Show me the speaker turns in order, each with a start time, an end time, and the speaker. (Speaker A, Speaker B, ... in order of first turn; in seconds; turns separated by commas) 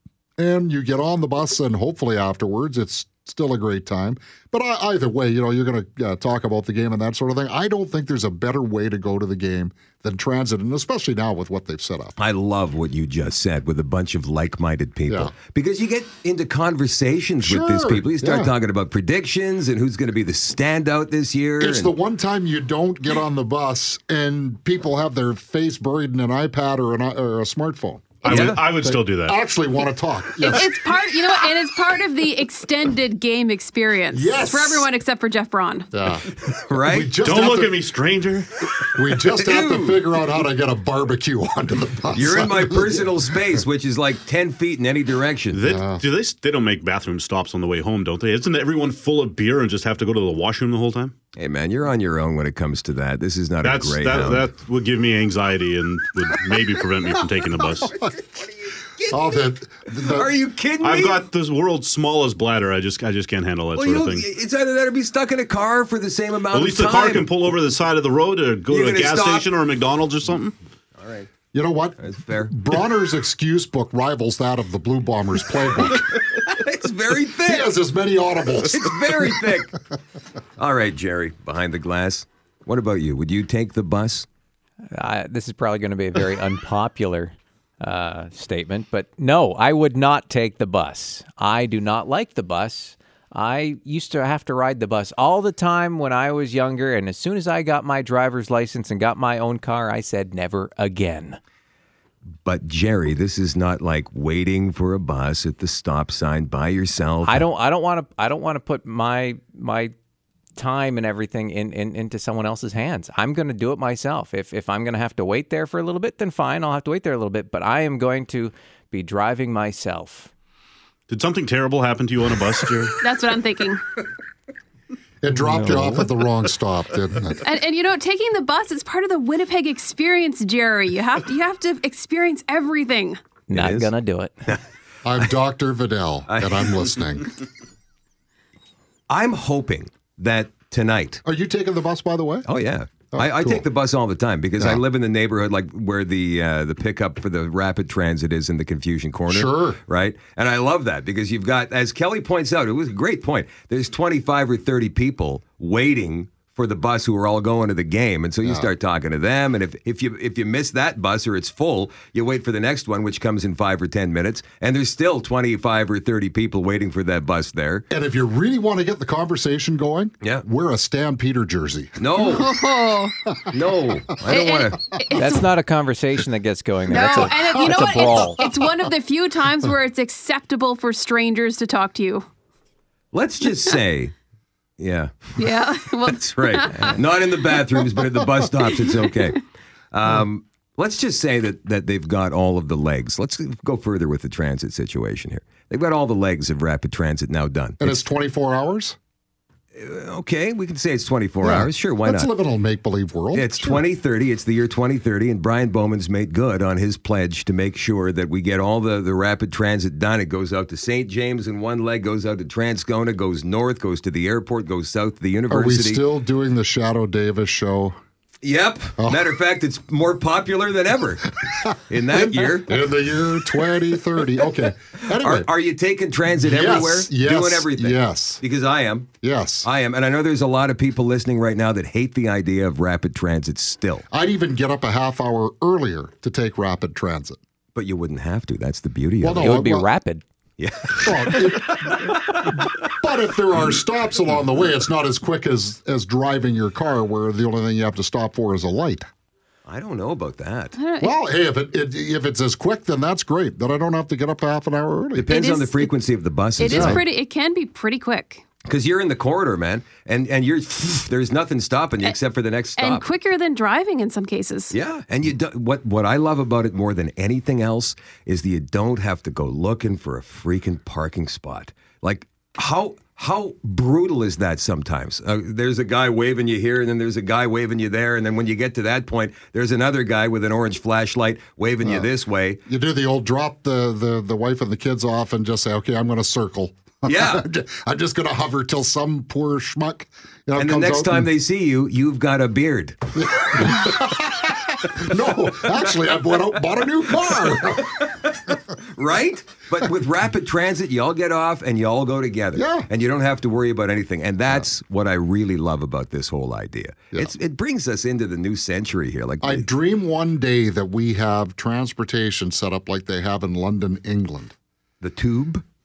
Speaker A: 0.4-12.2, Speaker B: 12.2-21.9, Speaker A: 15.1-15.3, Speaker A: 17.4-18.5, Speaker A: 21.6-30.8, Speaker B: 28.2-28.6, Speaker C: 28.2-29.4, Speaker D: 30.5-35.9, Speaker A: 34.1-34.9, Speaker A: 35.9-36.3, Speaker B: 36.5-37.1, Speaker A: 36.8-37.9, Speaker C: 37.2-38.5, Speaker A: 38.8-43.1, Speaker B: 39.2-40.0, Speaker B: 42.1-45.6, Speaker C: 45.5-51.1, Speaker A: 45.7-46.0, Speaker B: 51.3-54.5, Speaker C: 53.6-57.9, Speaker B: 58.0-61.2, Speaker A: 59.1-60.3, Speaker C: 60.8-64.3, Speaker B: 63.7-67.3, Speaker C: 66.5-70.5, Speaker B: 68.7-69.5, Speaker B: 71.0-71.3, Speaker A: 71.5-76.2, Speaker B: 72.0-72.5, Speaker B: 76.4-77.7, Speaker A: 77.4-79.3, Speaker B: 78.7-79.7, Speaker B: 80.6-84.3, Speaker E: 84.9-101.4, Speaker B: 102.4-107.4, Speaker E: 107.2-109.9, Speaker E: 110.6-120.3, Speaker C: 121.1-122.9, Speaker D: 123.0-123.8, Speaker A: 125.2-127.4, Speaker E: 125.3-126.1, Speaker D: 127.4-133.2, Speaker E: 133.5-134.5, Speaker B: 133.5-133.9, Speaker A: 135.0-137.3, Speaker B: 136.3-136.7, Speaker B: 139.1-141.2, Speaker A: 141.2-142.4, Speaker B: 142.4-167.8, Speaker A: 143.1-143.6, Speaker A: 149.3-149.8, Speaker A: 167.9-172.0, Speaker B: 172.0-172.5, Speaker D: 172.2-173.1, Speaker B: 173.5-175.0, Speaker D: 174.3-175.4, Speaker E: 175.1-178.4, Speaker D: 176.9-182.2, Speaker A: 177.2-178.5, Speaker B: 183.1-184.1, Speaker B: 184.8-185.4, Speaker D: 185.4-187.0, Speaker B: 186.1-189.4, Speaker B: 189.9-198.0, Speaker A: 197.8-198.9, Speaker B: 199.8-202.3, Speaker A: 201.4-203.8, Speaker B: 203.3-216.0, Speaker A: 215.5-217.9, Speaker B: 218.4-222.8, Speaker A: 219.0-219.3, Speaker A: 221.5-225.5, Speaker B: 225.1-229.1, Speaker A: 226.3-228.4, Speaker A: 229.2-229.7, Speaker B: 229.6-234.0, Speaker A: 234.1-237.4, Speaker B: 237.7-239.5, Speaker A: 239.2-239.9, Speaker E: 239.4-240.2, Speaker B: 240.6-242.5, Speaker A: 241.0-249.1, Speaker B: 249.7-250.8, Speaker D: 250.7-251.1, Speaker A: 251.0-255.3, Speaker B: 255.1-257.0, Speaker D: 255.3-255.9, Speaker D: 256.6-258.4, Speaker A: 256.6-257.0, Speaker B: 258.6-263.0, Speaker D: 262.8-264.7, Speaker B: 264.7-282.6, Speaker A: 281.8-282.1, Speaker A: 282.6-291.3, Speaker B: 287.1-287.4, Speaker B: 290.6-293.9, Speaker A: 293.1-298.1, Speaker B: 295.4-309.6, Speaker A: 302.5-302.9, Speaker A: 309.4-314.5, Speaker B: 315.0-315.6